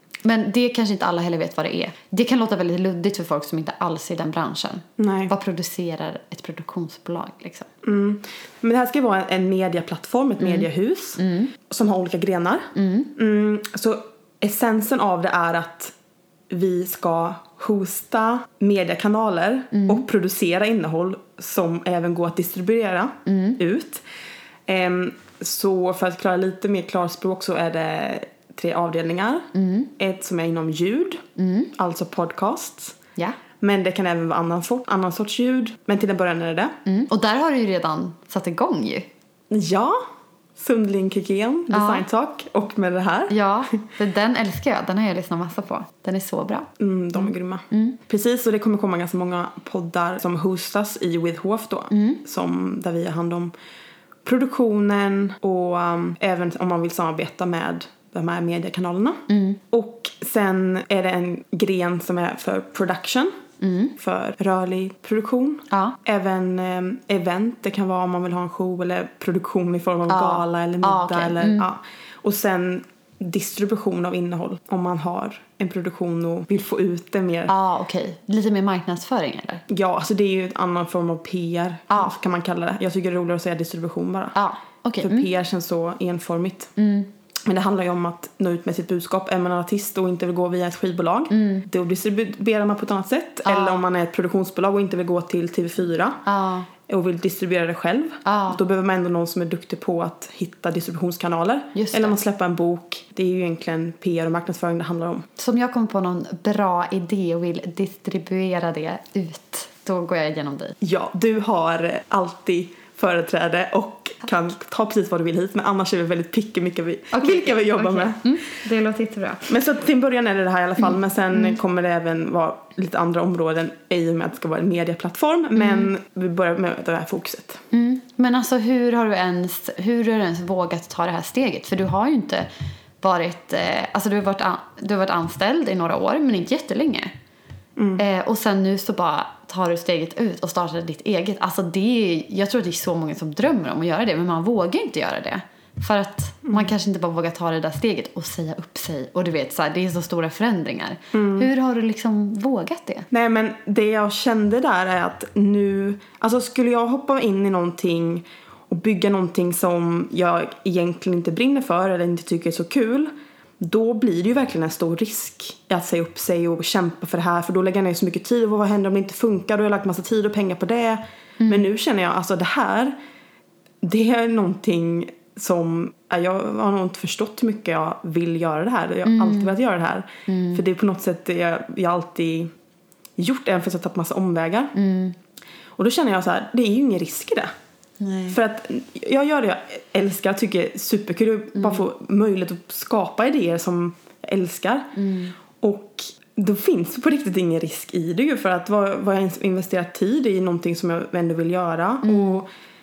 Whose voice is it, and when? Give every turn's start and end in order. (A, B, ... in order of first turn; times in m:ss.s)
0:00.2-0:07.7 A
0:05.0-0:05.3 B
0:07.8-0:15.9 B
0:10.4-0:10.7 A
0:11.2-0:11.5 A
0:12.7-0:13.1 A
0:16.5-0:24.0 B
0:19.7-0:20.0 A
0:23.2-0:23.6 A
0:24.7-0:33.0 B
0:29.5-0:29.9 A
0:31.4-0:31.7 A
0:33.6-0:36.8 B
0:36.8-0:39.1 A
0:39.5-0:40.0 B
0:40.6-0:43.4 B
0:41.7-0:42.0 A
0:43.3-0:48.0 A
0:46.8-0:53.5 B
0:51.9-0:52.2 A
0:54.2-1:03.3 B
0:59.3-0:59.6 A
1:03.6-1:03.9 A
1:04.0-1:17.5 B
1:05.7-1:06.0 A
1:10.1-1:11.7 A
1:17.5-1:19.6 A
1:19.7-1:24.4 B
1:24.3-1:25.3 A
1:25.0-1:26.7 B
1:26.8-1:27.1 A
1:27.4-1:36.2 B
1:31.3-1:31.6 A
1:33.4-1:33.8 A
1:36.2-1:36.7 A
1:36.9-1:45.3 B
1:38.2-1:38.6 A
1:41.7-1:42.2 A
1:45.4-1:50.8 A
1:50.8-1:58.3 B
1:57.1-1:59.5 A
1:59.5-2:07.6 B
2:00.8-2:01.6 A
2:05.6-2:05.9 A
2:07.7-2:12.5 A
2:13.0-2:17.1 A
2:17.8-2:18.0 B
2:18.0-2:33.1 A
2:26.4-2:26.7 B
2:31.1-2:31.5 B
2:33.1-2:53.0 B
2:51.4-2:51.7 A
2:53.8-3:02.5 B
2:59.0-2:59.5 A
3:00.3-3:00.6 A
3:03.2-3:04.7 B
3:04.7-3:05.2 A
3:05.8-3:07.5 B
3:08.0-3:08.4 A
3:08.3-3:14.9 B
3:11.6-3:11.9 A
3:14.9-3:15.3 A
3:15.6-3:22.5 B
3:22.0-3:22.4 A